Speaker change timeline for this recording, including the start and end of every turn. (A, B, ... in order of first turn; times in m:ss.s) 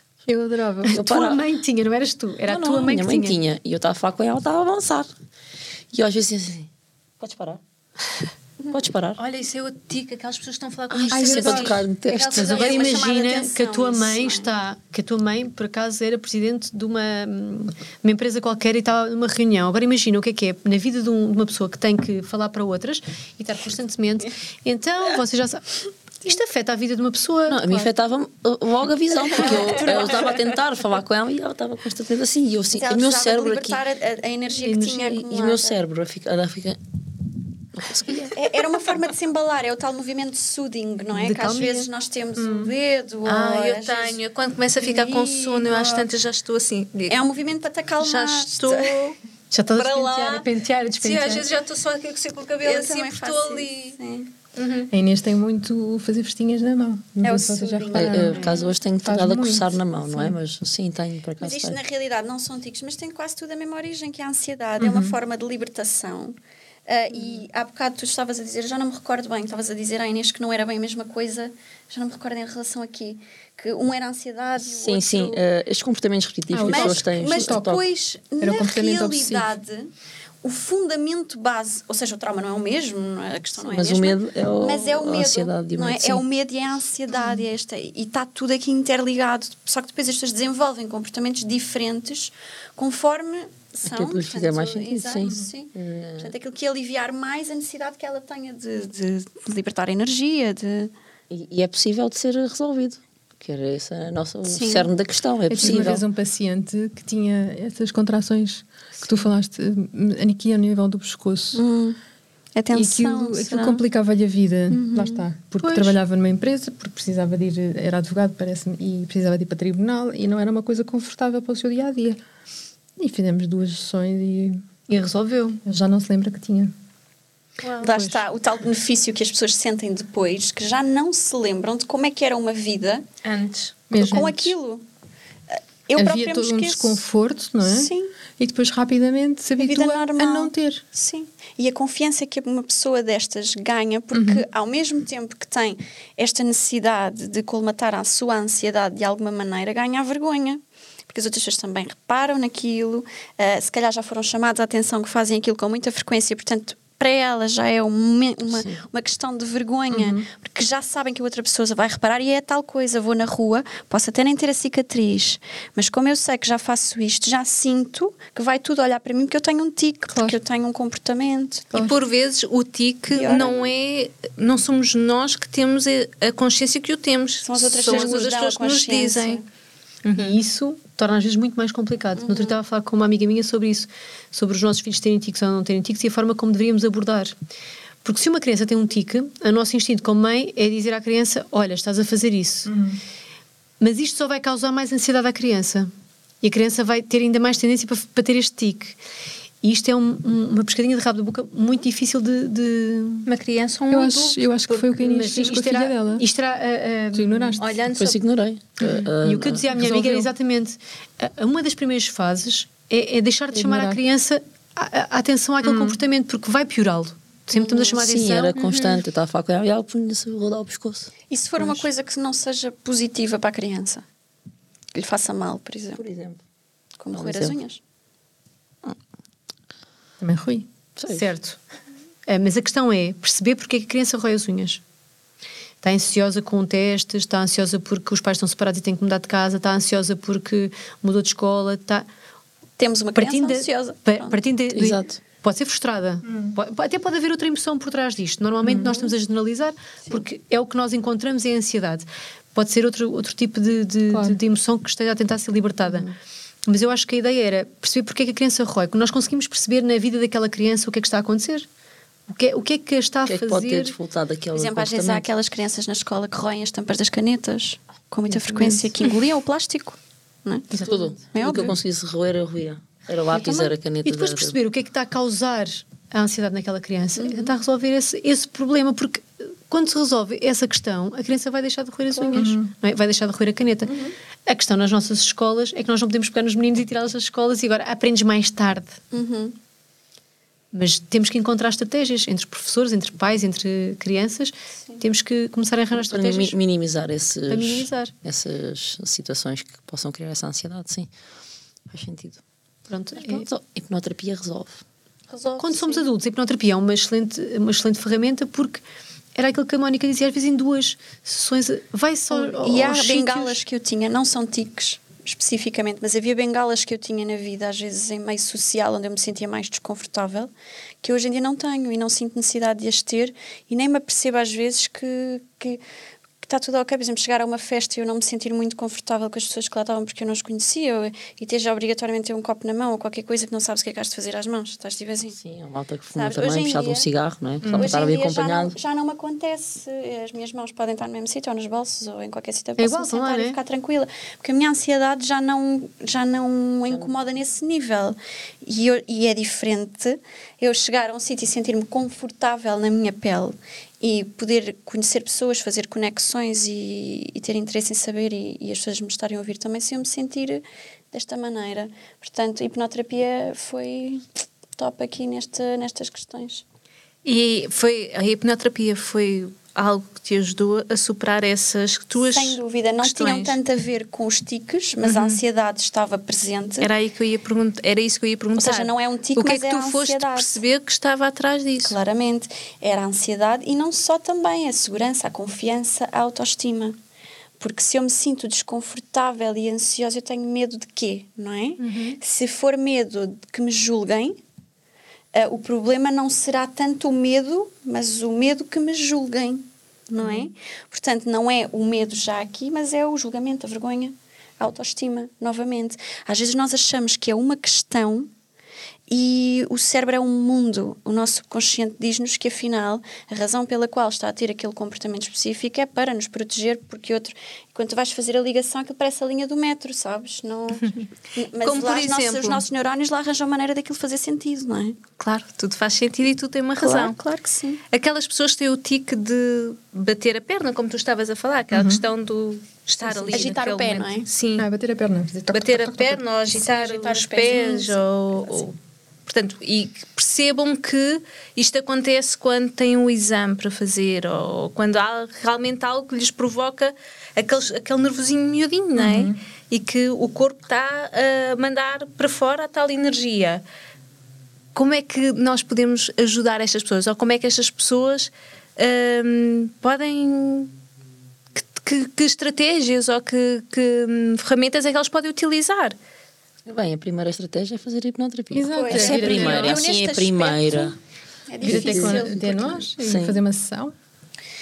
0:00.3-0:01.0 A
0:00.9-0:01.4 B
0:00.9-0:03.4 C
0:02.4-0:05.1 B
0:05.9-0:06.7 B
0:07.2-0:07.6 B
0:08.7-0:09.2 B
0:09.2-0:13.0 D
0:10.9-0:12.6 B
0:11.1-0:11.6 A
0:12.3-0:14.5 E
0:12.3-0:27.9 C
0:27.5-0:33.8 B
0:29.2-0:30.4 E
0:32.7-0:35.8 E
0:34.8-0:36.8 B
0:37.7-0:38.4 B
0:38.3-0:44.2 E
0:41.1-0:41.9 C
0:42.4-0:42.7 A
0:43.2-0:47.2 D
0:44.8-0:46.1 E
0:47.1-0:49.1 E
0:48.0-0:49.2 D
0:49.5-0:51.5 C
0:49.7-0:50.5 D
0:51.0-0:54.0 D
0:52.6-0:54.3 E
0:54.6-0:54.9 D
0:54.9-1:00.4 A
0:57.2-0:58.6 E
0:57.9-1:01.8 B
1:01.4-1:15.4 E
1:04.8-1:05.1 A
1:14.6-1:17.8 B
1:16.5-1:17.8 A
1:16.6-1:19.9 E
1:18.4-1:19.5 A
1:20.4-1:40.9 E
1:23.6-1:26.2 B
1:33.8-1:36.3 B
1:41.3-1:46.0 B
1:44.4-1:44.9 E
1:45.5-1:51.6 A
1:45.6-1:45.9 E
1:51.5-1:52.0 E
1:52.5-1:53.8 E
1:52.7-2:02.2 A
1:54.7-1:55.2 E
1:55.6-1:56.0 C
2:03.0-2:04.6 A
2:04.9-2:05.6 C
2:05.6-2:06.7 A
2:07.8-2:13.0 E
2:13.2-2:13.8 D
2:13.9-2:14.5 A
2:13.9-2:14.8 E
2:15.5-2:17.0 E
2:16.0-2:20.8 A
2:17.6-2:18.1 E
2:19.6-2:51.7 E
2:24.1-2:24.4 A
2:38.5-2:38.8 B
2:39.9-2:40.2 A
2:50.1-2:50.4 A
2:51.7-2:59.4 D
2:53.1-2:53.7 E
2:57.4-2:59.4 E
3:00.0-3:00.4 D
3:00.1-3:07.3 C
3:02.2-3:02.6 E
3:08.0-3:12.7 C
3:12.7-3:13.0 A
3:13.8-3:19.0 C
3:19.6-3:23.3 C
3:23.2-3:24.9 D
3:23.9-3:26.2 A
3:25.0-3:27.6 C
3:27.1-3:27.8 A
3:27.6-3:28.2 D
3:27.9-3:29.6 B
3:28.8-3:38.6 C
3:29.7-3:30.3 A
3:33.5-3:34.0 A
3:35.6-3:36.0 A
3:37.5-3:38.0 E
3:37.9-3:41.1 B
3:38.5-3:39.0 D
3:41.3-3:44.0 E
3:44.9-3:46.0 E
3:46.0-3:46.4 B
3:47.0-3:47.8 E
3:47.1-3:47.6 B
3:50.2-3:50.7 A
3:51.0-3:51.2 B
3:51.0-3:51.6 C
3:52.3-3:54.8 C
3:55.8-4:02.0 C
4:02.8-4:04.4 E
4:03.1-4:16.1 C
4:04.7-4:05.2 B
4:06.2-4:06.6 A
4:08.8-4:09.1 E
4:14.1-4:14.4 A
4:16.6-4:21.7 C
4:22.3-4:24.0 C
4:23.2-4:25.3 B
4:24.5-4:31.7 E
4:28.3-4:28.8 C
4:30.8-4:34.5 B
4:33.3-4:33.7 E
4:34.0-4:49.0 C
4:37.2-4:37.5 E
4:42.2-4:42.5 E
4:42.4-4:42.7 A
4:43.8-4:44.1 E
4:49.1-4:49.6 E
4:50.7-4:56.6 C
4:55.9-5:01.1 B
4:57.5-4:58.1 C
5:01.9-5:02.4 B
5:02.9-5:03.5 C
5:03.2-5:04.8 B
5:05.3-5:06.0 D
5:05.6-5:08.8 C
5:09.4-5:13.6 C
5:12.3-5:20.5 E
5:21.0-5:25.8 E
5:26.4-5:35.4 E
5:35.4-5:38.8 B
5:36.1-5:37.1 E
5:37.6-5:38.0 A
5:37.6-6:06.6 E
5:42.8-5:43.6 C
6:07.2-6:13.6 D
6:12.2-6:16.9 E
6:15.0-6:15.4 D
6:16.8-6:22.0 D
6:18.6-6:20.6 E
6:21.8-6:27.0 E
6:27.6-6:34.4 E
6:31.8-6:32.2 D
6:35.3-6:48.3 E
6:49.1-7:05.0 E
7:01.6-7:02.6 D
7:05.2-7:07.2 D
7:06.8-7:07.8 E
7:07.9-7:14.7 D
7:11.7-7:12.0 A
7:13.1-7:14.3 E
7:14.6-7:16.2 A
7:15.5-7:33.6 D
7:16.5-7:18.6 E
7:29.0-7:29.4 A
7:34.7-7:40.7 D
7:41.6-7:46.0 D
7:46.6-7:51.0 B
7:48.5-7:49.8 A
7:48.7-7:50.9 E
7:51.5-7:52.8 E
7:51.6-7:53.9 A
7:51.6-7:53.4 B